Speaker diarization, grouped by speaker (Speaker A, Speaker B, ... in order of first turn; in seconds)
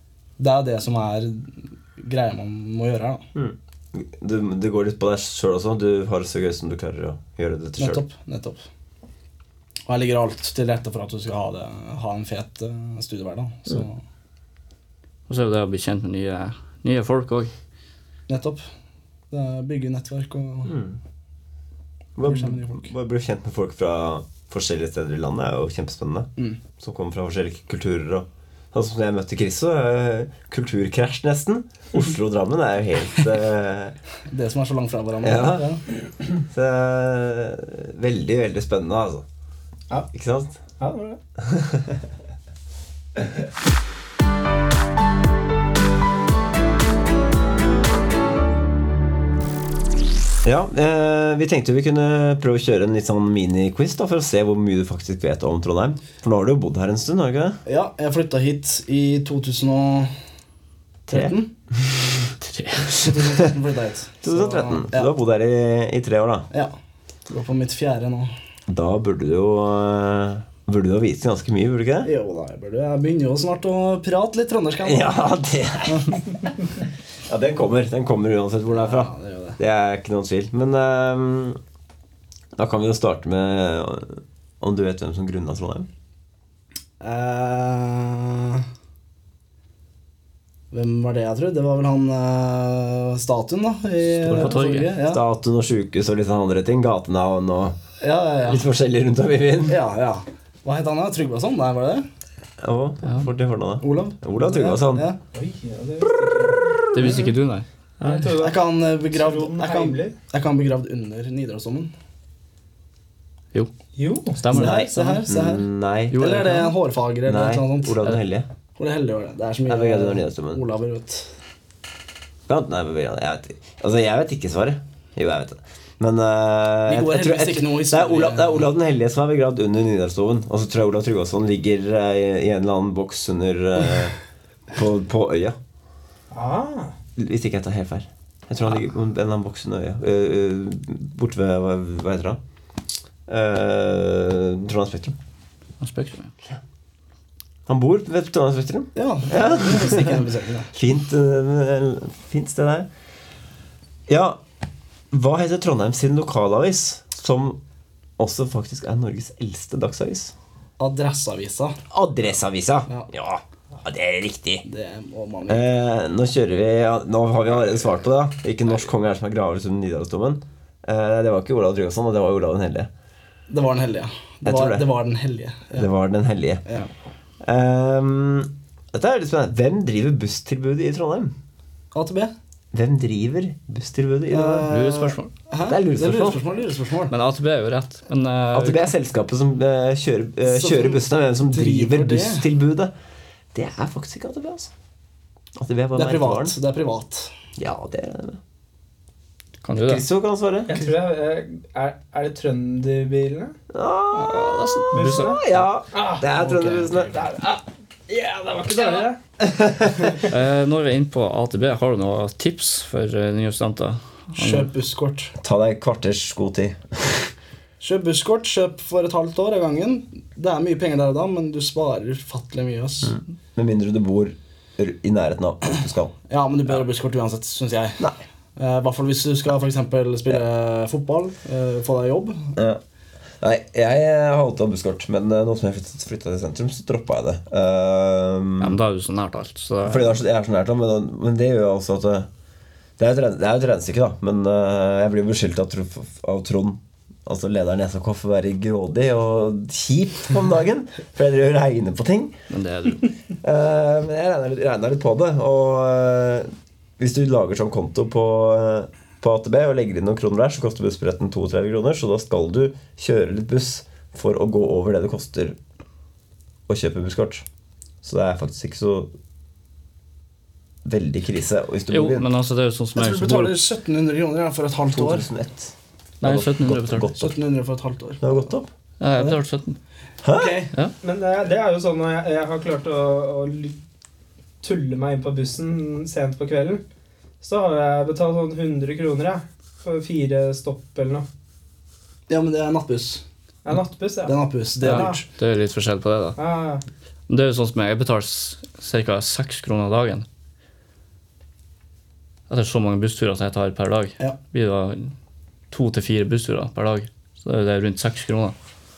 Speaker A: 0.4-3.3, 7.8-8.6, 9.9-14.0, 18.3-18.6, 19.3-20.8, 22.2-22.9, 34.3-35.8, 57.7-60.1, 61.1-61.5, 63.0-65.1, 67.3-68.3, 72.0-75.2, 75.9-76.2, 78.7-79.6, 87.0-88.7, 90.7-95.2, 98.0-98.7, 99.7-102.1, 103.8-105.2, 108.4-111.9, 114.5-118.0, 118.8-121.3, 126.9-128.7, 148.9-150.7, 160.8-161.8, 164.7-165.7, 173.5-175.9, 181.9-182.3, 184.3-187.1, 190.5-192.5, 195.9-197.3, 206.4-207.1, 214.3-215.3, 217.8-223.2, 226.3-232.6, 273.0-275.3, 277.2-278.2, 280.3-280.7, 292.3-293.2, 294.2-295.2
Speaker B: 3.4-8.0, 20.7-21.0, 22.2-34.0, 35.2-35.7, 36.4-39.2, 40.1-40.6, 41.4-42.0, 50.4-57.6, 61.1-61.4, 64.2-66.5, 68.7-72.1, 74.8-81.6, 82.6-85.9, 94.3-97.8, 98.5-99.8, 102.6-105.1, 114.5-116.2, 117.2-118.5, 119.7-120.6, 122.5-134.2, 134.7-135.6, 137.2-142.4, 143.3-145.2, 147.7-152.9, 154.1-154.4, 155.1-157.6, 158.2-160.3, 161.9-164.7, 165.5-172.9, 174.4-174.9, 175.7-176.7, 177.4-181.3, 182.7-184.7, 185.7-186.4, 188.5-192.9, 193.5-194.7, 195.6-196.6, 197.6-198.4, 199.8-200.9, 203.7-207.3, 209.4-210.1, 215.4-217.3, 223.0-226.1, 233.4-238.8, 239.8-242.3, 243.0-252.4, 253.4-265.6, 266.7-267.4, 268.0-269.1, 270.9-272.3, 274.9-277.4, 278.2-278.7, 280.2-280.6
Speaker C: 15.3-17.5, 62.4-63.1, 94.2-94.9, 106.9-107.7, 114.3-115.2, 116.1-116.7, 145.8-146.3, 184.7-185.3, 187.1-188.9, 199.6-200.0, 204.2-205.6, 210.2-214.7, 238.6-240.1, 252.5-253.1, 271.9-273.6, 276.2-277.1, 279.0-279.8, 294.8-296.4, 297.3-300.3, 302.5-305.1, 305.7-308.6
Speaker D: 40.8-41.2, 105.3-107.2, 108.0-110.2, 114.0-114.4, 136.3-136.9, 200.7-203.6, 204.9-206.4, 207.1-209.2, 281.0-283.8, 284.6-286.8, 287.4-291.3, 293.6-295.2, 296.4-296.8